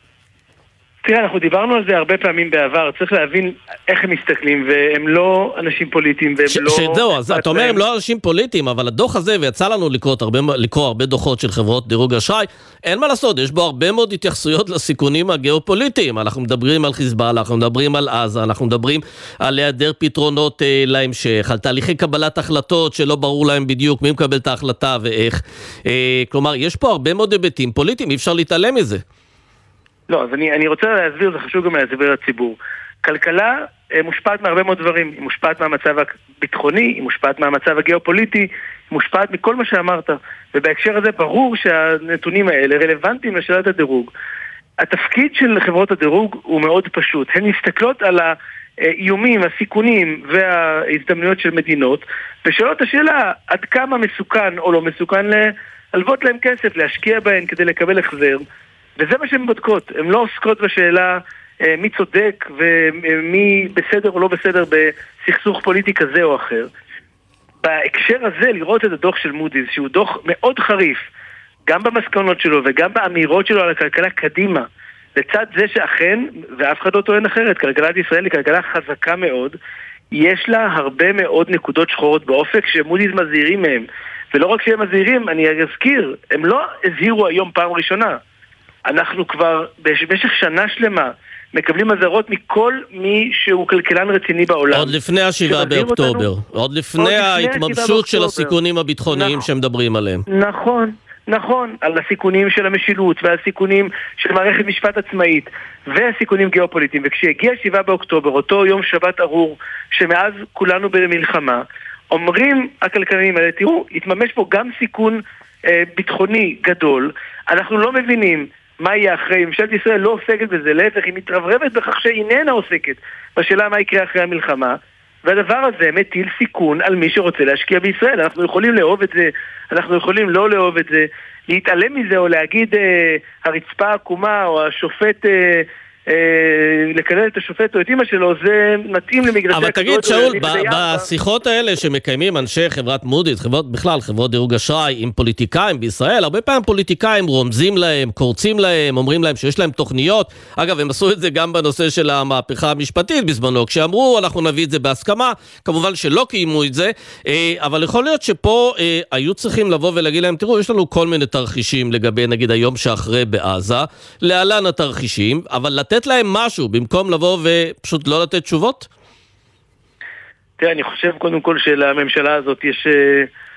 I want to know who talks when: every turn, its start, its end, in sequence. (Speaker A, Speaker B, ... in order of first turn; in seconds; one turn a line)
Speaker A: 1.1-7.8
Speaker B: 6.5-29.0
Speaker A: 30.1-44.1
Speaker A: 44.8-48.3
Speaker A: 48.9-58.4
Speaker A: 59.0-66.7
Speaker A: 67.6-71.0
Speaker A: 71.7-74.7
Speaker A: 75.2-79.6
Speaker A: 80.1-88.2
Speaker A: 88.9-94.9
Speaker B: 94.7-100.2
Speaker A: 95.5-96.2
Speaker A: 97.0-98.5
Speaker A: 99.1-99.4
Speaker A: 100.3-141.1
Speaker B: 139.5-168.9
Speaker A: 170.6-173.3